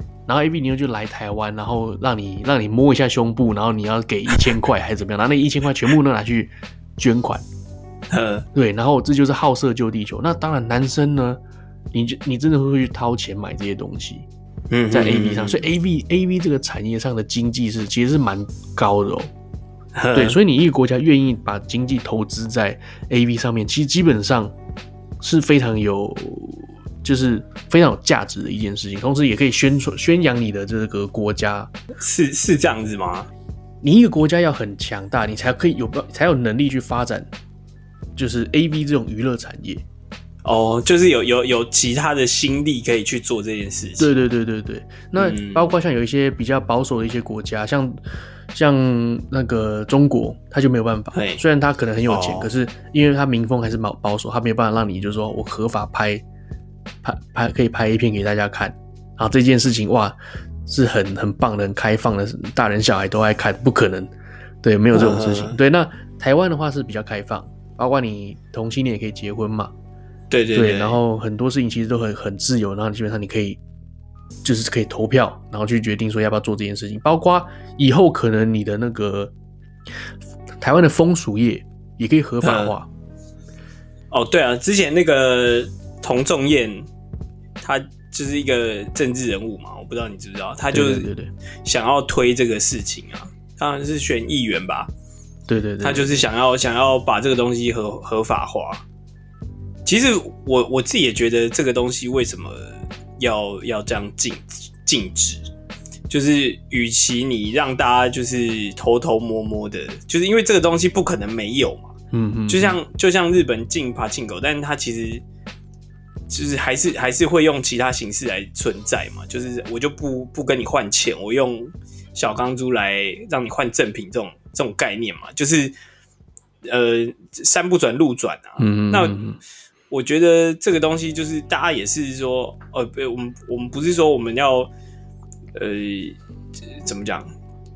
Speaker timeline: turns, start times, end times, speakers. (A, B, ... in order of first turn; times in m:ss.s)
0:00.3-0:07.4 A
0:08.1-0:08.4 B
0:08.5-0:11.4 A
0:11.9-0:14.3 A
0:14.7-0:15.7 B
0:14.9-0:19.3 A
0:19.9-0:20.4 B
0:20.1-0:24.5 A
0:25.2-0:31.7 A
0:32.0-0:33.3 B
0:33.8-0:37.3 A
0:38.2-0:39.8 A
0:40.4-0:44.1 B
0:44.0-0:48.0 A
0:45.2-0:45.7 B
0:48.5-0:56.2 A
0:51.1-0:51.4 B
0:52.1-0:52.5 B
0:57.0-1:04.1 A
1:04.6-1:09.7 A
1:04.9-1:05.6 B
1:10.3-1:11.0 B
1:10.5-1:13.6 A
1:14.4-1:19.3 A
1:20.6-1:22.9 A
1:22.4-1:22.7 B
1:24.1-1:26.9 B
1:27.6-1:31.1 B
1:30.7-1:31.3 A
1:31.6-1:34.9 B
1:35.5-1:36.2 A
1:35.8-1:38.8 B
1:39.8-1:45.5 B
1:46.1-1:51.9 B
1:52.1-1:52.8 A
1:52.5-1:55.2 B
1:56.3-2:05.7 B
2:06.6-2:09.2 B
2:08.6-2:09.4 A
2:09.9-2:14.7 B
2:15.5-2:16.2 B
2:16.8-2:17.3 B